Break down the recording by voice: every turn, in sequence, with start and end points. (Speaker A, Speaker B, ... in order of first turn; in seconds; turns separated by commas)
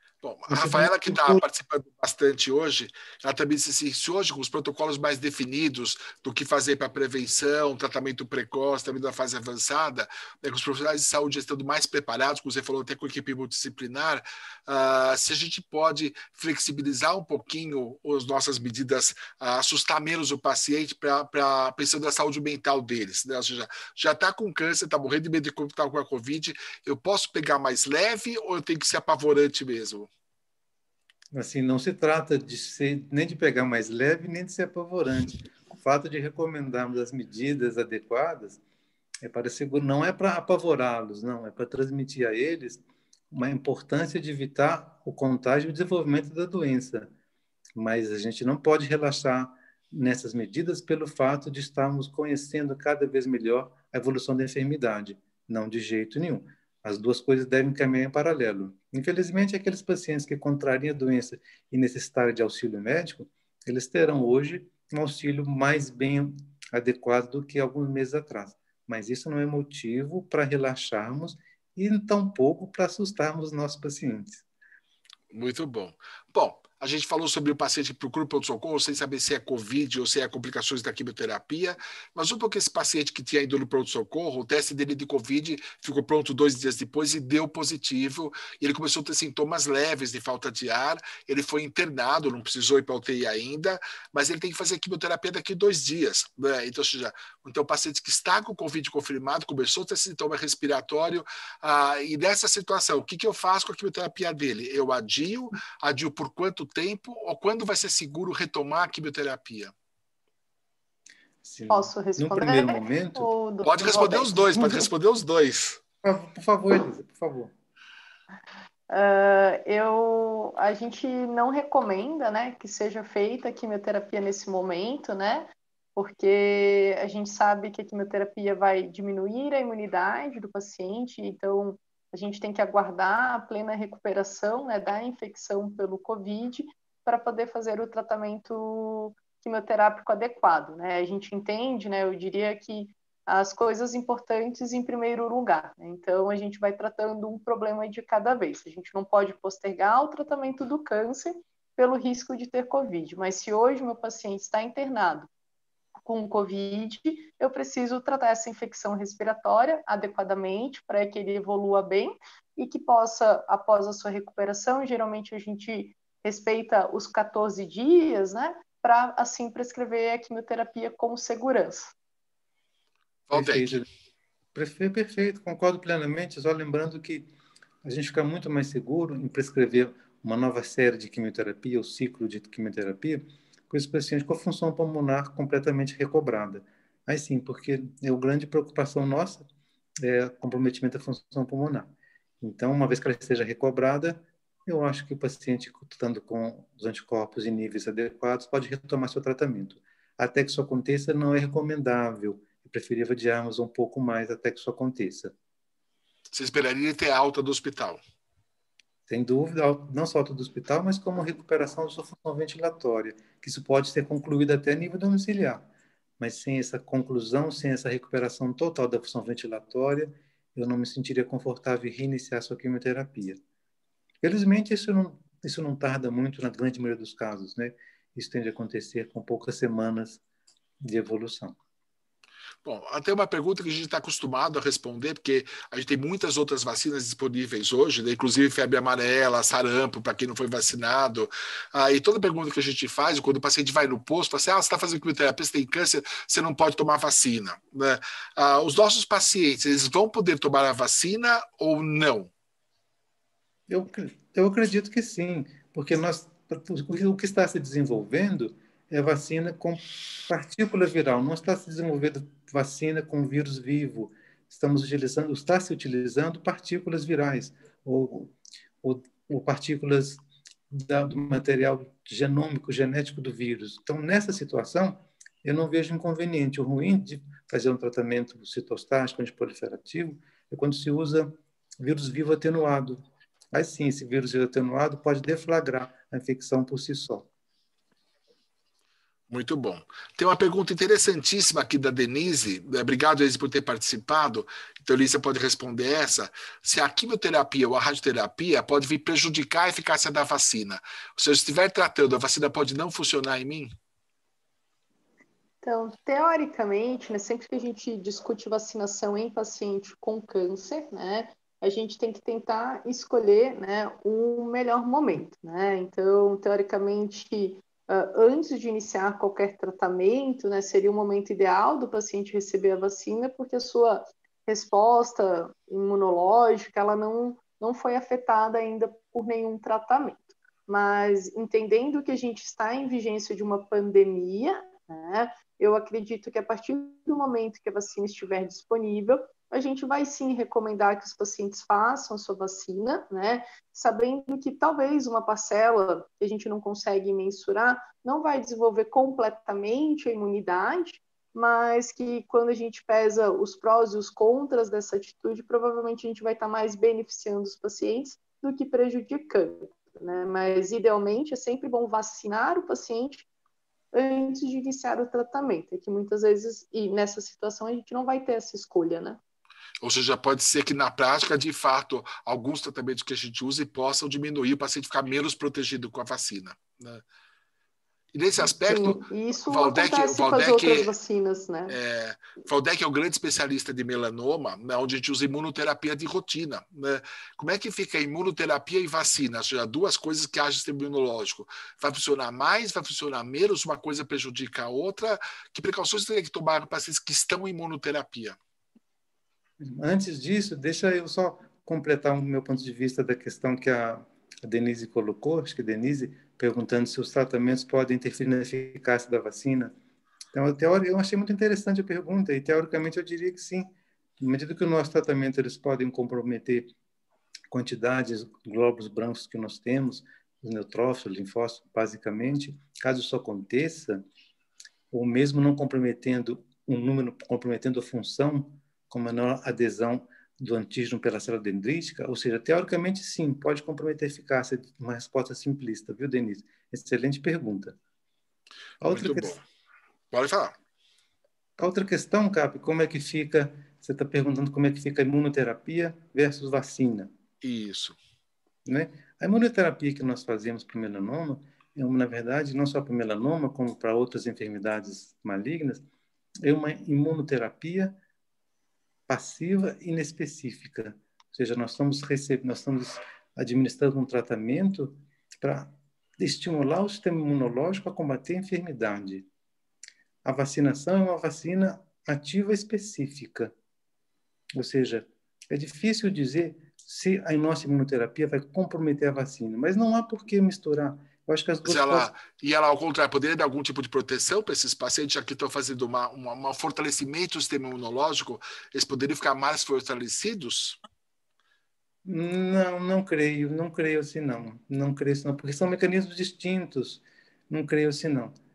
Speaker A: 0.2-30.1, Speaker B: 0.5-1.4, Speaker B: 31.3-38.6, Speaker B: 39.2-47.1, Speaker B: 47.8-74.4, Speaker A: 75.3-109.7, Speaker B: 111.4-113.3, Speaker C: 111.7-114.7, Speaker A: 113.7-115.8, Speaker B: 114.6-114.9, Speaker B: 116.0-117.5, Speaker C: 118.9-155.3, Speaker C: 156.1-171.9, Speaker A: 173.3-173.8, Speaker B: 173.3-173.9, Speaker B: 174.5-177.3, Speaker B: 177.8-189.5, Speaker B: 190.0-205.3, Speaker A: 206.3-208.0, Speaker B: 209.1-215.7, Speaker B: 216.2-223.4, Speaker B: 224.2-230.2, Speaker B: 230.8-231.6, Speaker A: 232.6-252.3, Speaker B: 253.7-283.0, Speaker B: 283.5-287.3, Speaker A: 289.3-303.7, Speaker C: 305.6-363.3, Speaker C: 363.9-369.2, Speaker A: 369.8-377.0, Speaker A: 378.1-380.9, Speaker C: 378.7-381.8, Speaker A: 381.7-398.4, Speaker B: 399.6-409.7, Speaker B: 410.3-416.7, Speaker B: 417.5-424.1, Speaker B: 424.9-437.8, Speaker B: 438.8-439.4, Speaker A: 438.9-439.4, Speaker A: 440.1-440.6, Speaker B: 441.6-447.1, Speaker A: 447.4-448.0, Speaker B: 448.6-455.8, Speaker B: 456.4-458.0, Speaker B: 459.1-469.3, Speaker B: 470.2-473.5, Speaker B: 474.6-482.1, Speaker A: 481.6-490.8, Speaker B: 492.1-498.3